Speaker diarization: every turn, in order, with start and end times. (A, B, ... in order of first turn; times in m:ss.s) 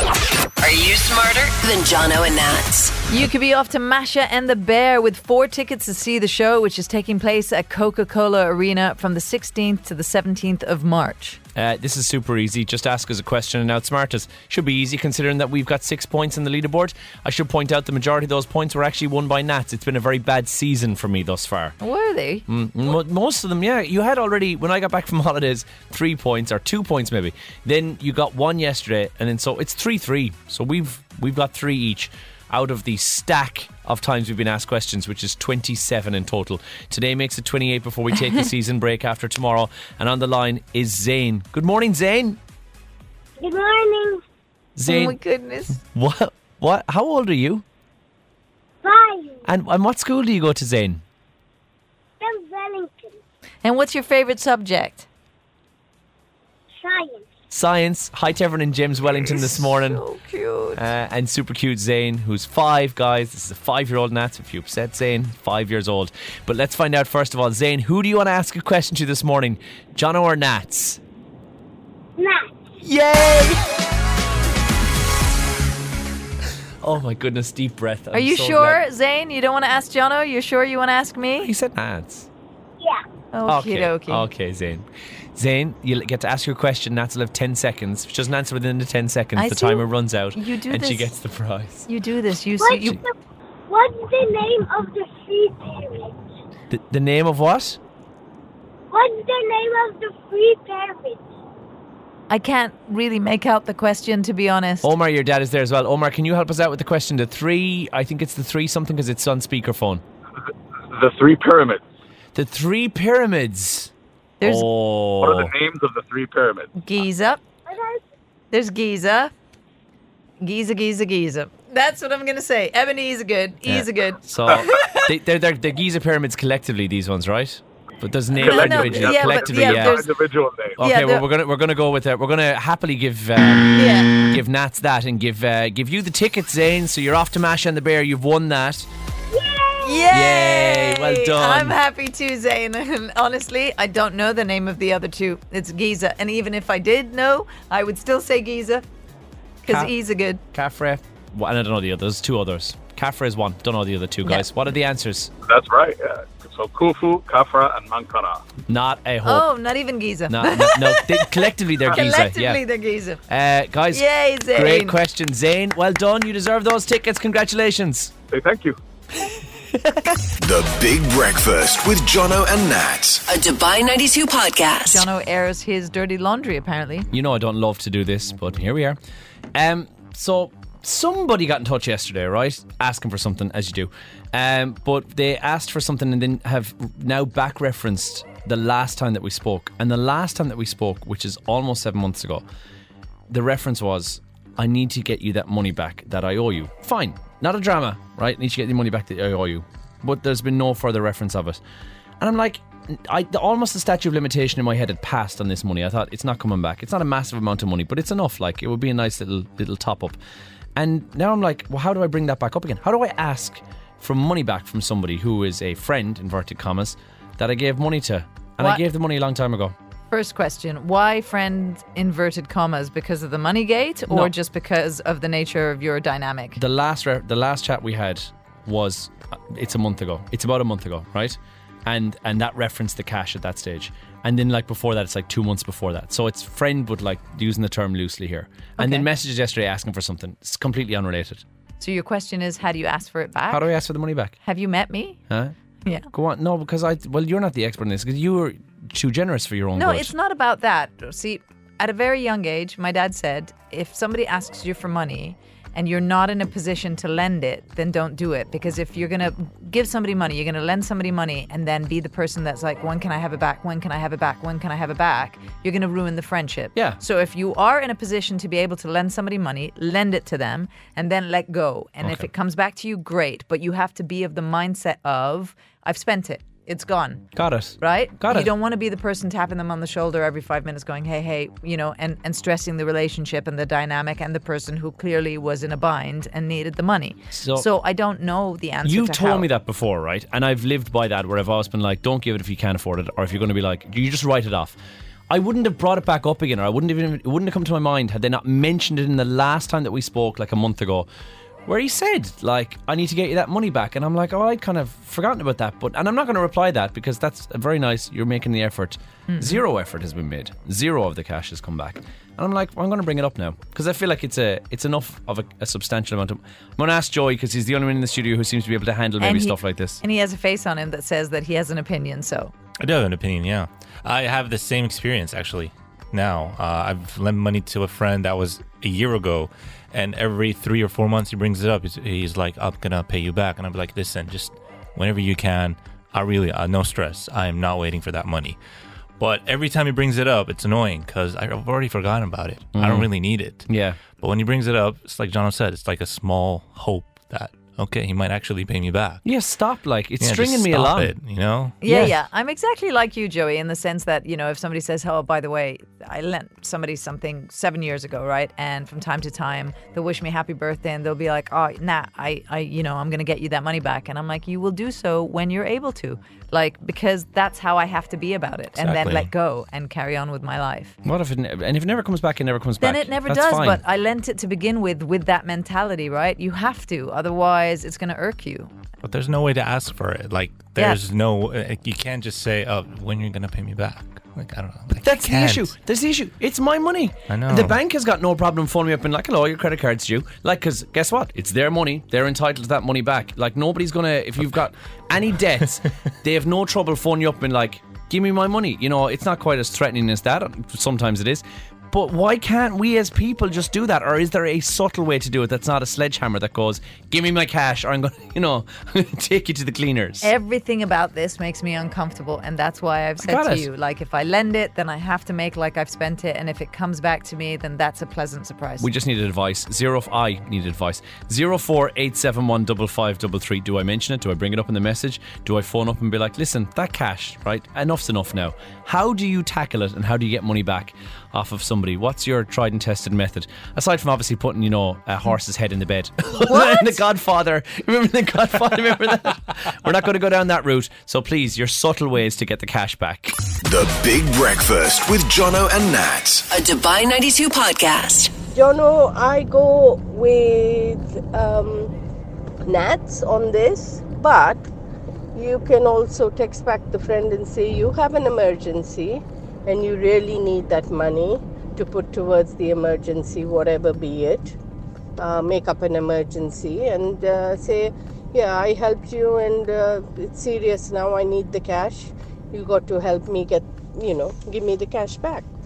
0:00.6-0:03.0 A
0:03.1-0:11.4 B
0:11.5-0:21.8 C
0:21.8-0:22.4 B
0:22.5-0:42.4 C
0:43.4-0:44.2 D
0:44.8-0:45.2 C
0:44.8-0:45.8 B
0:45.8-0:47.6 C
0:48.8-0:49.4 D
0:49.4-0:51.0 C
0:52.2-0:53.2 D
0:53.6-0:55.1 B
0:56.8-0:57.3 D
0:57.5-1:00.0 C
0:59.3-1:00.8 B
1:00.8-1:11.0 C
1:12.2-1:12.6 D
1:12.8-1:13.6 C
1:16.8-1:18.8 C
1:18.1-1:21.5 B
1:21.4-1:22.3 C
1:23.3-1:24.3 B
1:23.4-1:31.9 C
1:29.4-1:31.1 B
1:31.9-1:33.0 B
1:32.6-1:33.1 D
1:33.7-1:36.2 D
1:36.7-1:37.8 C
1:38.9-1:41.2 D
1:42.3-1:44.9 B
1:44.8-1:50.0 C
1:50.9-1:51.8 E
1:52.3-1:53.9 C
1:54.4-1:54.6 B
1:54.4-1:55.5 C
1:55.2-1:56.7 E
1:56.8-1:57.4 B
1:57.7-1:58.0 D
1:58.5-1:59.3 B
2:00.4-2:05.0 B
2:03.6-2:10.0 C
2:08.3-2:10.8 E
2:08.4-2:10.1 B
2:10.8-2:18.9 C
2:10.8-2:11.2 B
2:13.7-2:14.2 B
2:19.3-2:20.3 D
2:19.8-2:28.8 B
2:20.1-2:21.8 C
2:29.6-2:30.4 B
2:29.6-2:29.9 C
2:30.5-2:35.3 C
2:35.4-2:38.4 E
2:38.7-2:39.4 C
2:39.2-2:43.2 B
2:40.3-2:42.6 C
2:43.3-2:48.1 C
2:43.9-2:45.0 B
2:48.3-2:48.8 E
2:49.7-2:50.1 C
2:50.4-2:53.2 F
2:53.3-2:55.0 A
2:54.9-2:57.1 B
2:57.1-2:59.0 C
2:59.5-3:12.4 C
3:13.3-3:21.6 C
3:22.2-3:30.2 C
3:30.8-3:39.7 C
3:40.1-3:46.6 B
3:46.6-4:01.4 C
3:58.8-3:59.1 B
4:01.8-4:03.7 B
4:03.5-4:04.4 C
4:04.4-4:05.2 B
4:05.3-4:05.5 C
4:06.1-4:10.1 C
4:09.8-4:37.3 B
4:26.7-4:27.0 C
4:37.3-4:38.5 C
4:37.8-4:49.5 B
4:47.3-4:47.6 C
4:48.8-4:54.8 C
4:55.3-5:01.1 C
5:01.6-5:20.0 C
5:09.3-5:09.6 B
5:19.2-5:22.5 B
5:22.8-5:38.6 G
5:39.2-5:49.2 G
5:42.7-5:43.1 C
5:43.7-5:44.0 C
5:49.2-5:51.1 C
5:50.2-5:52.1 G
5:51.8-6:11.0 B
5:51.8-5:52.1 C
6:08.8-6:09.3 G
6:11.0-6:13.8 C
6:12.8-6:18.7 B
6:19.0-6:25.7 G
6:25.0-6:50.3 C
6:27.3-6:27.8 G
6:50.2-6:58.9 B
6:53.2-6:53.7 C
6:58.8-7:23.4 C
7:16.4-7:16.8 B
7:23.6-7:26.4 F
7:26.5-7:28.3 A
7:28.5-7:31.9 H
7:32.6-7:34.6 H
7:35.3-7:44.5 H
7:45.2-7:55.4 H